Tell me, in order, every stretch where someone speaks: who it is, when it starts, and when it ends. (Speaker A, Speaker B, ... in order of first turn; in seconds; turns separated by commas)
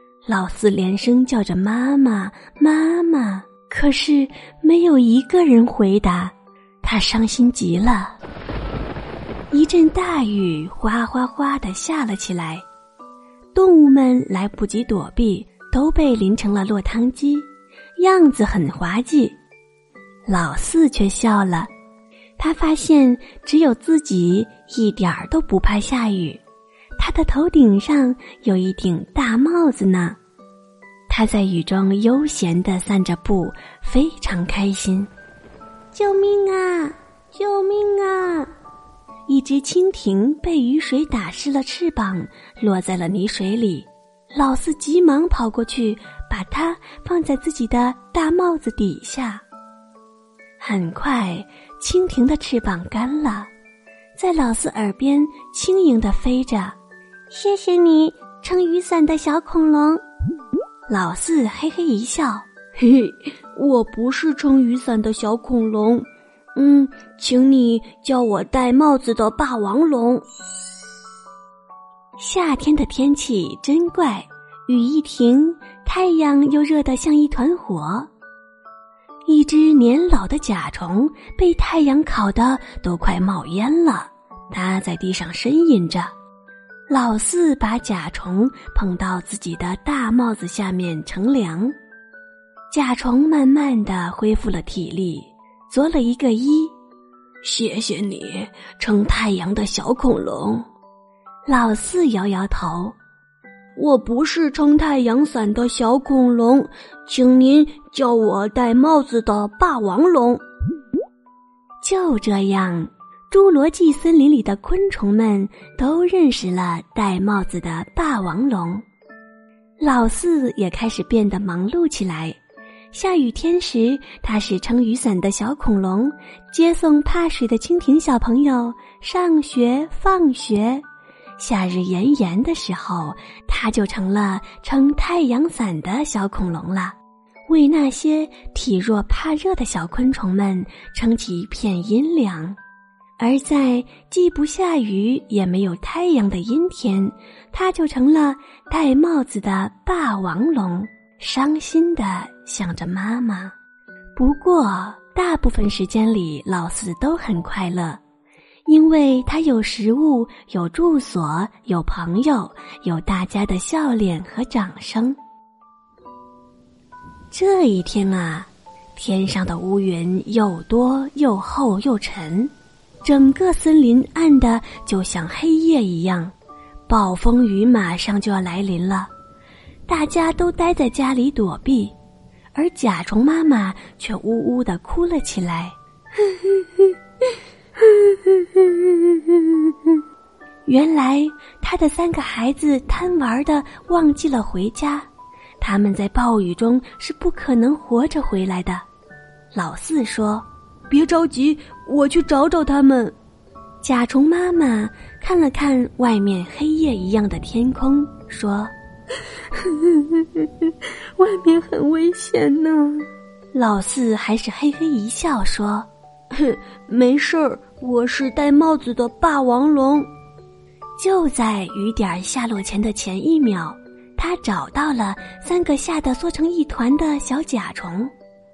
Speaker A: 0.2-8.2, Speaker A: 9.5-12.6, Speaker A: 13.5-19.4, Speaker A: 20.2-21.7, Speaker A: 22.4-26.4, Speaker A: 27.0-30.2, Speaker A: 31.1-35.1, Speaker A: 35.9-38.5, Speaker A: 39.3-49.4, Speaker A: 50.6-53.5, Speaker A: 54.1-56.8, Speaker A: 57.3-60.0, Speaker A: 60.9-70.2, Speaker A: 72.2-78.1, Speaker A: 79.2-86.1, Speaker A: 86.9-91.7, Speaker A: 92.7-96.7, Speaker A: 97.4-100.7, Speaker A: 101.5-103.0, Speaker A: 103.8-110.4, Speaker A: 111.8-118.8, Speaker A: 119.8-122.4, Speaker A: 122.9-130.8, Speaker A: 131.4-136.9, Speaker A: 137.5-142.6, Speaker A: 143.2-153.5, Speaker A: 154.2-158.0, Speaker A: 158.7-165.2, Speaker A: 167.3-172.5, Speaker A: 173.0-176.3, Speaker A: 176.9-179.1, Speaker A: 179.9-181.9, Speaker A: 182.5-185.7, Speaker A: 186.2-186.9, Speaker A: 187.8-189.9, Speaker A: 190.7-195.1, Speaker A: 195.6-198.8, Speaker A: 199.5-203.1, Speaker A: 203.8-208.7, Speaker A: 209.5-210.5, Speaker A: 211.2-220.1, Speaker A: 221.0-228.1